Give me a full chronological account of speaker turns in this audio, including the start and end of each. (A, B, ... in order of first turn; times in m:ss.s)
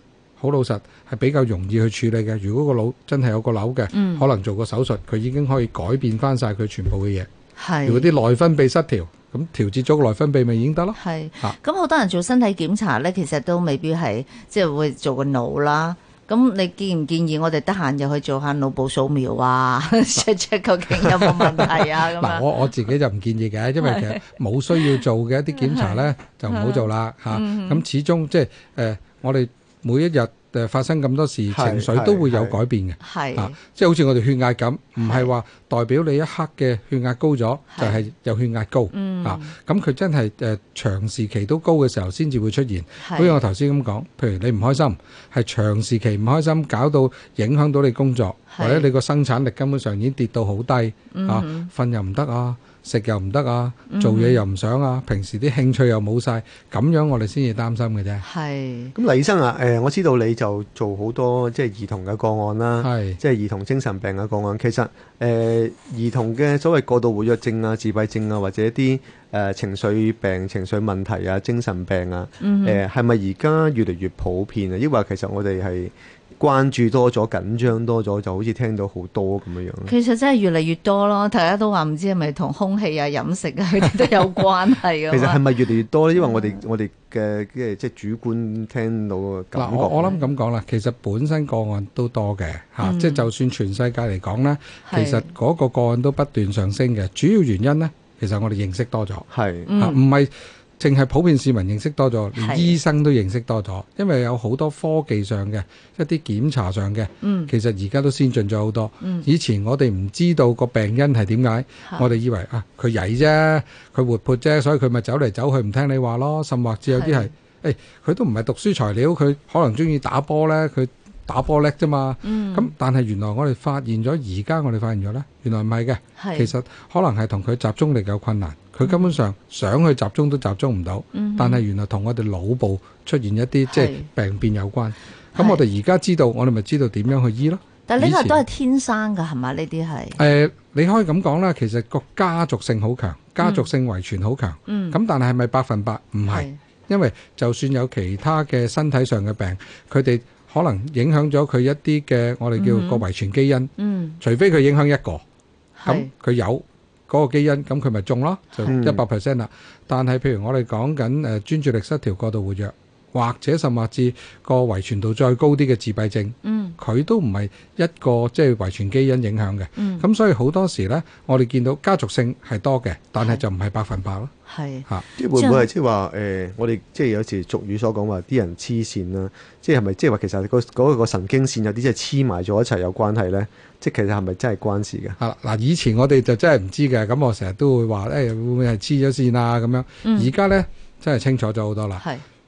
0:00.4-0:07.3 A
0:03.9-0:04.3 B
0:07.6-0:08.1 B
0:07.9-0:11.6 A
0:11.0-0:22.4 B
0:21.1-0:58.2 A
0:23.8-0:25.0 B
0:25.6-0:27.8 B
0:31.5-0:32.6 C
0:33.0-0:33.6 B
0:35.0-0:35.3 B
0:37.7-0:38.0 B
0:38.9-0:39.5 B
0:43.0-0:43.4 B
0:48.5-0:48.9 B
0:51.1-0:51.7 B
0:53.9-0:54.4 B
0:58.2-0:58.9 B
0:59.0-1:19.9 C
1:02.8-1:03.2 A
1:12.4-1:12.8 B
1:19.9-1:25.4 B
1:25.1-1:30.2 C
1:29.6-2:18.4 A
1:32.8-1:33.3 B
1:34.9-1:35.3 B
1:39.3-1:39.7 C
1:39.7-1:40.0 B
1:42.4-1:42.8 B
1:47.2-1:47.5 B
1:56.9-1:57.3 B
2:02.2-2:02.7 B
2:06.2-2:06.5 B
2:08.8-2:09.1 B
2:11.1-2:11.6 B
2:13.7-2:14.1 B
2:15.4-2:15.6 B
2:17.9-2:20.2 B
2:20.2-2:35.2 A
2:23.4-2:23.7 B
2:24.7-2:25.0 B
2:26.3-2:26.6 B
2:32.6-2:33.0 B
2:33.8-2:34.2 B
2:35.8-2:36.1 B
2:35.9-2:54.3 A
2:38.7-2:39.0 C
2:46.4-2:46.8 B
2:49.8-2:50.0 B
2:54.5-2:55.7 B
2:55.2-3:05.2 C
3:05.2-3:12.0 A
3:10.0-3:10.3 B